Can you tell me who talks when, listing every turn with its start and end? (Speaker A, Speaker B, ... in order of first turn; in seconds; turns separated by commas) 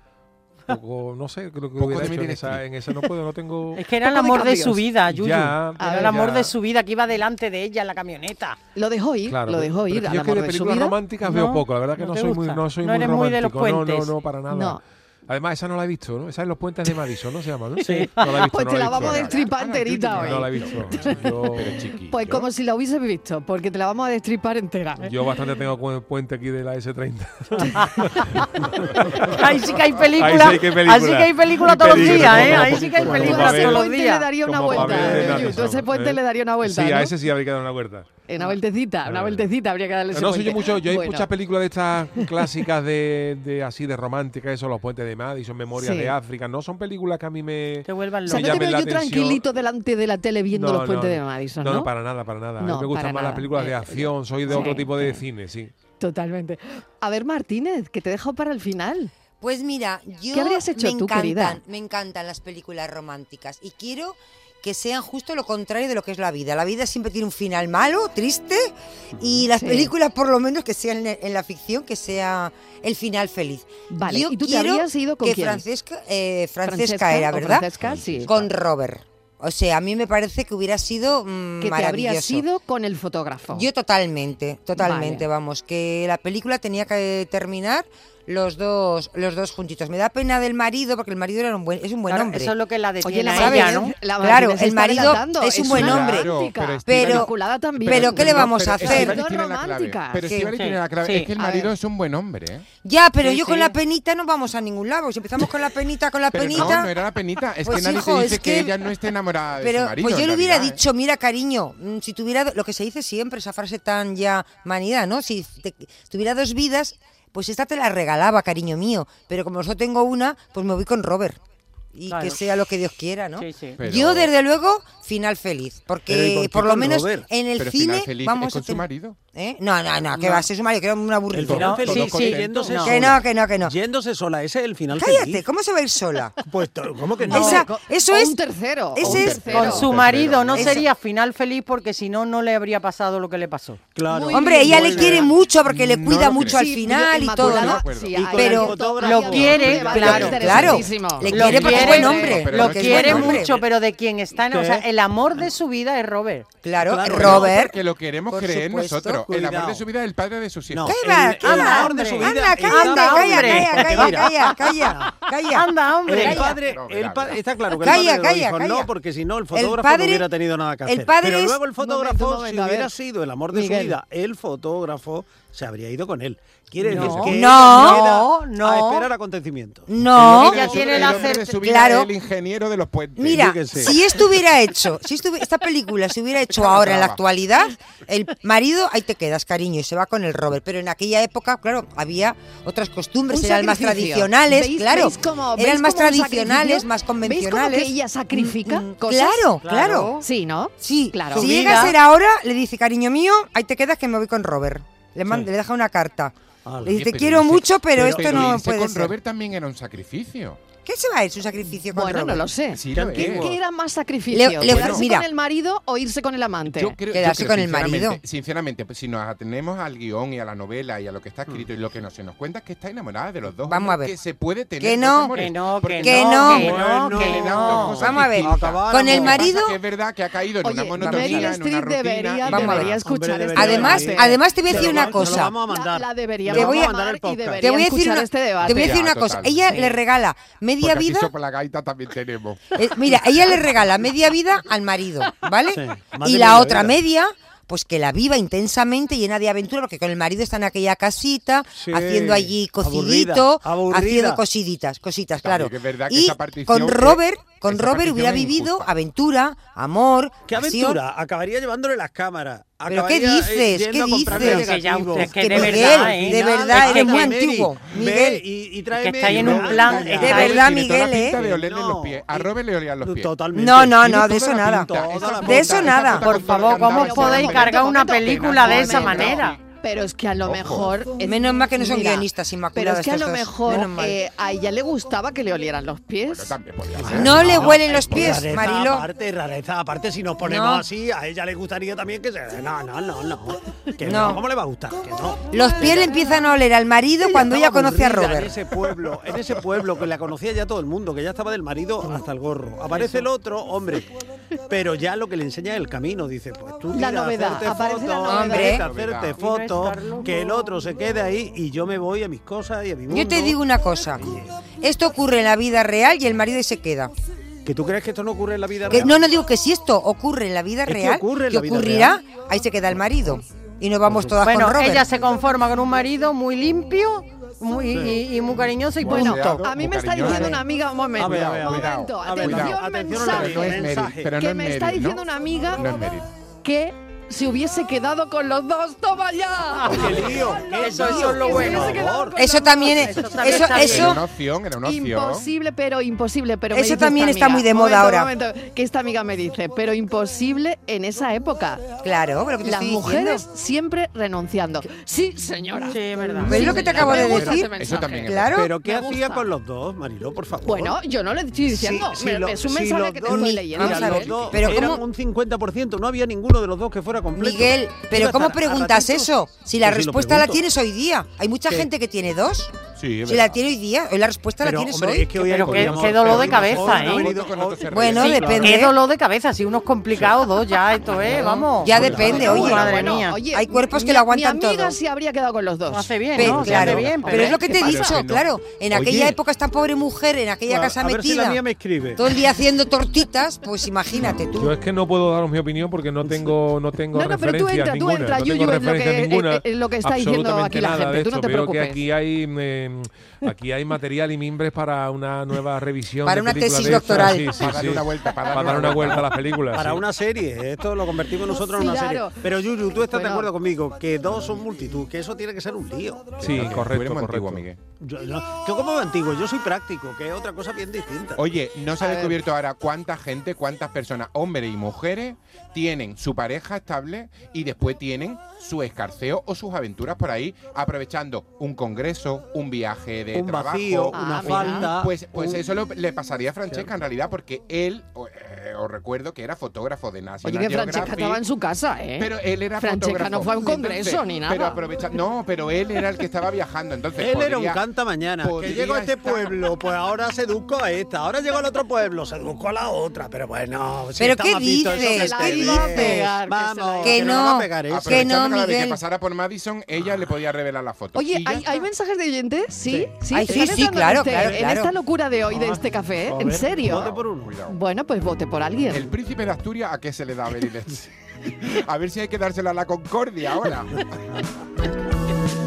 Speaker A: 0.7-3.8, Speaker B: 1.8-2.6, Speaker C: 3.8-8.6, Speaker D: 4.0-4.8, Speaker A: 5.1-6.5, Speaker D: 5.8-6.1, Speaker D: 8.8-11.0, Speaker A: 9.3-19.4, Speaker C: 11.2-14.1, Speaker D: 14.5-14.8, Speaker C: 17.8-18.3, Speaker D: 18.4-21.2, Speaker B: 18.9-22.5, Speaker A: 20.1-21.8, Speaker D: 22.1-25.1, Speaker A: 25.0-33.9, Speaker B: 29.1-29.4, Speaker C: 29.3-35.4, Speaker D: 32.0-37.1, Speaker A: 34.4-38.1, Speaker E: 34.8-35.4, Speaker D: 38.3-41.3, Speaker A: 39.1-39.5, Speaker A: 40.1-49.4, Speaker D: 45.8-46.1, Speaker C: 47.9-48.6, Speaker D: 48.3-51.9, Speaker A: 50.5-55.7, Speaker D: 52.6-55.2, Speaker D: 56.0-59.1, Speaker F: 59.4-77.7, Speaker D: 60.3-61.6, Speaker E: 69.1-69.4, Speaker D: 69.6-69.9, Speaker D: 73.9-75.6, Speaker D: 76.6-78.4, Speaker F: 78.2-82.4, Speaker D: 81.6-83.6, Speaker F: 83.5-92.5, Speaker D: 84.8-85.2, Speaker C: 92.1-94.0, Speaker D: 93.0-100.2, Speaker F: 93.4-96.3, Speaker B: 95.6-102.7, Speaker F: 96.8-97.3, Speaker F: 97.8-99.2, Speaker C: 100.5-101.3, Speaker F: 102.8-106.9, Speaker C: 103.2-103.7, Speaker B: 106.3-110.8, Speaker F: 107.6-108.9, Speaker F: 109.6-121.4, Speaker F: 121.9-132.2, Speaker C: 122.1-122.4, Speaker C: 123.4-123.8, Speaker B: 123.8-124.3, Speaker E: 126.1-127.3, Speaker B: 127.6-129.2, Speaker E: 131.3-135.4, Speaker B: 131.4-132.8, Speaker C: 131.5-133.1, Speaker F: 132.8-133.7, Speaker F: 134.9-136.3, Speaker E: 136.4-137.7, Speaker F: 137.3-138.4, Speaker D: 137.3-139.9, Speaker F: 138.9-139.8, Speaker B: 139.1-140.8, Speaker C: 139.2-143.8, Speaker E: 143.9-145.3, Speaker D: 144.1-145.1, Speaker F: 144.3-147.8, Speaker B: 145.7-148.4, Speaker D: 146.4-152.4, Speaker E: 148.1-150.8, Speaker F: 148.3-148.8, Speaker C: 149.0-156.5, Speaker F: 149.9-153.6, Speaker B: 151.3-153.5, Speaker E: 154.5-154.8, Speaker F: 156.6-157.8, Speaker E: 156.8-157.6, Speaker B: 157.1-161.0, Speaker E: 158.4-159.8, Speaker F: 158.5-159.2, Speaker E: 160.7-165.1, Speaker F: 160.8-166.6, Speaker C: 161.4-164.5, Speaker C: 165.5-166.6, Speaker E: 166.1-179.9, Speaker B: 166.5-167.6, Speaker F: 167.8-168.9, Speaker F: 169.5-170.3, Speaker F: 170.8-171.6, Speaker D: 171.8-172.9, Speaker D: 173.5-173.9, Speaker C: 176.8-179.1, Speaker F: 177.1-178.1, Speaker F: 179.9-182.1, Speaker B: 180.1-183.9, Speaker C: 180.2-181.5, Speaker F: 183.2-200.2, Speaker E: 183.3-183.9, Speaker B: 186.5-187.2, Speaker D: 193.3-199.4, Speaker E: 199.6-200.1, Speaker C: 199.7-200.1, Speaker D: 200.2-201.9, Speaker F: 200.8-209.2, Speaker C: 201.3-201.9, Speaker E: 206.7-207.0, Speaker B: 206.8-210.6, Speaker E: 207.9-208.6, Speaker F: 210.8-212.4, Speaker D: 211.9-216.9, Speaker B: 212.7-213.5, Speaker E: 212.9-213.6, Speaker F: 214.3-215.3, Speaker B: 214.6-215.1, Speaker B: 216.7-233.0, Speaker F: 217.1-218.2, Speaker F: 223.7-224.1, Speaker F: 224.8-225.4, Speaker C: 225.3-227.9, Speaker F: 226.0-229.8, Speaker E: 226.5-229.5, Speaker D: 230.6-238.9, Speaker E: 231.0-231.4, Speaker F: 232.4-233.0, Speaker E: 233.0-237.7, Speaker F: 233.6-235.5, Speaker F: 236.5-236.9, Speaker F: 237.6-241.3, Speaker B: 238.7-239.8, Speaker B: 240.8-242.8, Speaker F: 242.8-261.0, Speaker E: 245.7-246.9, Speaker E: 251.7-254.4, Speaker B: 255.4-258.9, Speaker E: 260.5-272.5, Speaker F: 262.9-268.4, Speaker C: 264.3-267.4, Speaker C: 269.0-270.8, Speaker B: 269.3-279.6, Speaker F: 270.1-271.4, Speaker E: 273.0-276.6, Speaker F: 273.5-276.3, Speaker C: 276.1-279.6, Speaker D: 276.8-286.6, Speaker B: 280.4-280.9, Speaker F: 281.2-284.2, Speaker B: 286.2-287.8, Speaker E: 287.0-296.1, Speaker F: 287.1-289.1, Speaker F: 290.4-290.8, Speaker F: 294.1-294.4, Speaker F: 295.5-298.6, Speaker E: 297.2-304.1, Speaker E: 304.7-313.6, Speaker D: 306.9-308.8, Speaker F: 308.3-308.8, Speaker B: 308.6-309.4, Speaker C: 309.4-310.7, Speaker F: 313.1-314.2, Speaker E: 314.2-314.5, Speaker F: 314.8-317.1, Speaker E: 317.6-319.2, Speaker F: 318.9-325.1, Speaker E: 320.9-322.2, Speaker E: 324.1-324.3, Speaker C: 324.4-329.6, Speaker E: 327.9-328.2, Speaker B: 329.0-330.6, Speaker D: 329.1-333.8, Speaker E: 330.2-330.5, Speaker E: 331.2-334.3, Speaker B: 331.2-335.2, Speaker D: 334.4-335.9, Speaker B: 335.8-336.3, Speaker D: 336.6-342.9, Speaker E: 339.8-342.4, Speaker C: 339.8-344.2, Speaker F: 342.4-344.2, Speaker B: 343.7-345.4, Speaker D: 344.8-351.8, Speaker F: 346.7-348.3, Speaker F: 352.0-353.4, Speaker D: 352.6-358.3, Speaker C: 355.9-357.1, Speaker F: 356.4-357.7, Speaker E: 356.6-357.4, Speaker B: 357.1-358.7, Speaker F: 358.3-358.7, Speaker E: 358.5-361.0, Speaker D: 358.8-359.5, Speaker D: 360.6-364.3, Speaker E: 361.7-369.3, Speaker F: 363.3-365.0, Speaker B: 364.2-364.8, Speaker F: 367.3-372.7, Speaker E: 369.8-370.6, Speaker B: 372.9-373.6, Speaker F: 373.3-376.0, Speaker E: 374.6-378.8, Speaker C: 375.4-377.3, Speaker B: 375.9-378.7, Speaker F: 377.9-378.9, Speaker C: 378.3-383.4, Speaker E: 381.2-383.0, Speaker F: 381.4-384.9, Speaker D: 382.3-388.1, Speaker C: 385.9-387.6, Speaker F: 386.3-391.6, Speaker E: 386.5-386.9, Speaker B: 387.4-389.3, Speaker E: 388.9-389.3, Speaker E: 390.7-392.2, Speaker F: 392.2-394.8, Speaker A: 394.6-410.1, Speaker D: 397.1-402.0, Speaker F: 406.2-407.6, Speaker B: 407.1-409.3, Speaker E: 409.7-416.4, Speaker D: 411.5-412.4, Speaker D: 413.1-413.5, Speaker B: 416.4-417.8, Speaker A: 416.4-417.7, Speaker E: 418.0-421.4, Speaker B: 421.4-441.4, Speaker D: 422.0-422.4, Speaker E: 433.3-435.6, Speaker D: 434.1-434.9, Speaker D: 440.4-444.8, Speaker B: 442.2-447.8, Speaker E: 447.2-458.3, Speaker B: 448.4-449.6, Speaker F: 454.2-456.2, Speaker D: 454.9-457.4, Speaker F: 457.0-459.0, Speaker B: 457.9-461.8, Speaker D: 461.1-467.1, Speaker F: 463.3-464.9, Speaker E: 465.5-467.6, Speaker B: 466.9-467.8, Speaker D: 467.7-469.1, Speaker B: 468.9-474.1